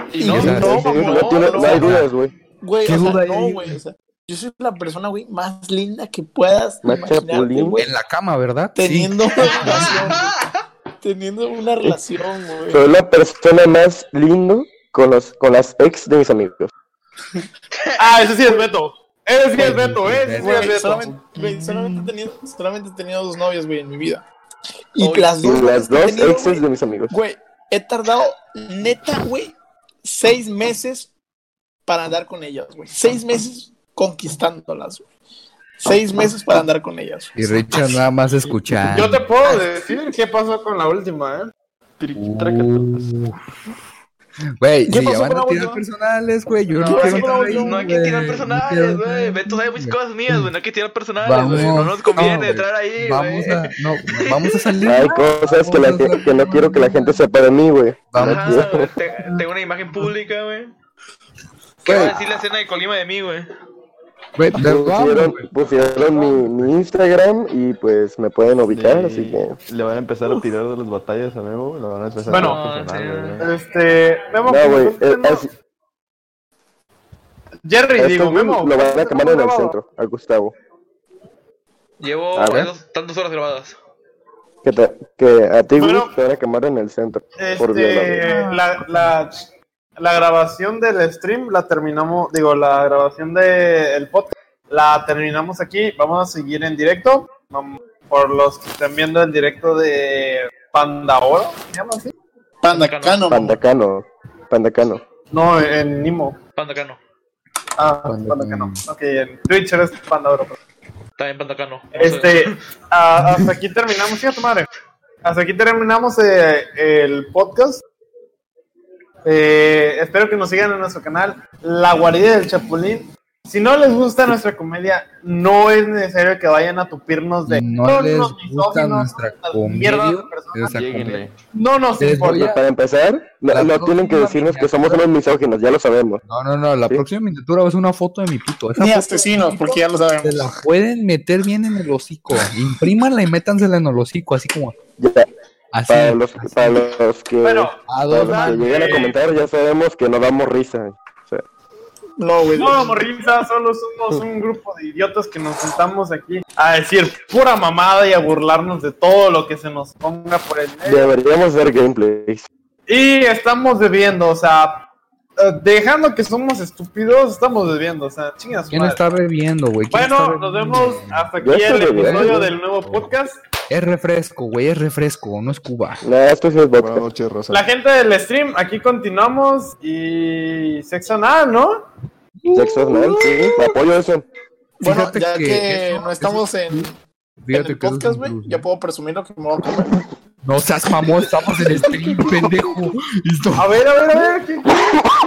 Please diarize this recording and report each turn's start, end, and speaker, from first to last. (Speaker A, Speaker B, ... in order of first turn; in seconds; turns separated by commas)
Speaker A: 0.2-2.0, Speaker B: 0.2-2.0, Speaker C: 0.3-2.3, Speaker D: 0.3-0.8, Speaker D: 1.7-2.1, Speaker A: 2.6-7.9, Speaker D: 2.8-3.8, Speaker C: 6.8-7.8, Speaker D: 7.8-10.1, Speaker A: 8.8-10.5, Speaker B: 9.4-10.2, Speaker A: 11.0-12.8, Speaker C: 12.7-16.7, Speaker B: 17.7-18.5, Speaker E: 18.0-21.2, Speaker D: 19.6-21.0, Speaker A: 20.4-24.2, Speaker A: 24.9-31.1, Speaker B: 25.0-25.4, Speaker C: 25.4-27.2, Speaker A: 31.9-35.0, Speaker A: 35.8-38.0, Speaker D: 37.4-39.2, Speaker E: 38.9-41.5, Speaker A: 39.4-39.9, Speaker F: 42.0-43.1, Speaker D: 42.1-43.4, Speaker D: 44.6-50.5, Speaker A: 44.9-45.8, Speaker A: 46.8-47.8, Speaker B: 46.9-54.9, Speaker D: 51.2-57.2, Speaker C: 54.8-58.9, Speaker D: 58.1-58.7, Speaker B: 58.2-60.7, Speaker B: 61.8-63.5, Speaker D: 61.8-62.2, Speaker D: 64.3-65.5, Speaker C: 64.5-69.6, Speaker F: 68.7-73.5, Speaker E: 72.3-72.6, Speaker B: 72.3-73.4, Speaker E: 73.4-75.5, Speaker C: 74.4-75.5, Speaker E: 77.6-79.8, Speaker C: 78.0-80.5, Speaker B: 82.0-83.8, Speaker C: 82.3-82.7, Speaker C: 84.6-88.2, Speaker E: 85.8-86.2, Speaker E: 87.4-89.4, Speaker D: 88.2-89.1, Speaker E: 90.0-102.1, Speaker A: 102.6-103.6, Speaker B: 102.7-103.3, Speaker C: 103.3-105.0, Speaker E: 105.3-106.4, Speaker B: 106.6-107.0, Speaker E: 107.8-110.6, Speaker D: 108.1-108.8, Speaker B: 111.2-112.6, Speaker E: 111.9-114.7, Speaker E: 115.2-117.8, Speaker E: 119.2-130.8, Speaker D: 127.5-131.2, Speaker F: 130.7-131.3, Speaker E: 131.5-132.5, Speaker D: 132.0-132.6, Speaker C: 132.3-136.2, Speaker D: 133.5-135.1, Speaker D: 136.3-144.8, Speaker A: 138.8-140.6, Speaker C: 145.0-145.3, Speaker D: 145.7-146.9, Speaker C: 145.9-151.4, Speaker E: 147.4-149.2, Speaker D: 147.9-149.2, Speaker A: 152.2-153.0, Speaker E: 152.6-161.1, Speaker C: 160.8-162.4, Speaker E: 162.9-164.9, Speaker E: 165.4-169.0, Speaker D: 168.7-173.1, Speaker E: 169.9-173.4, Speaker C: 171.4-172.5, Speaker D: 173.7-176.0, Speaker C: 176.0-177.1, Speaker F: 176.8-177.7, Speaker E: 177.5-181.8, Speaker D: 182.4-183.4, Speaker C: 182.5-184.2, Speaker D: 184.8-186.9, Speaker A: 184.8-186.9, Speaker D: 187.4-188.7, Speaker A: 187.5-190.0, Speaker D: 190.4-193.8, Speaker A: 191.8-192.2, Speaker E: 193.6-194.7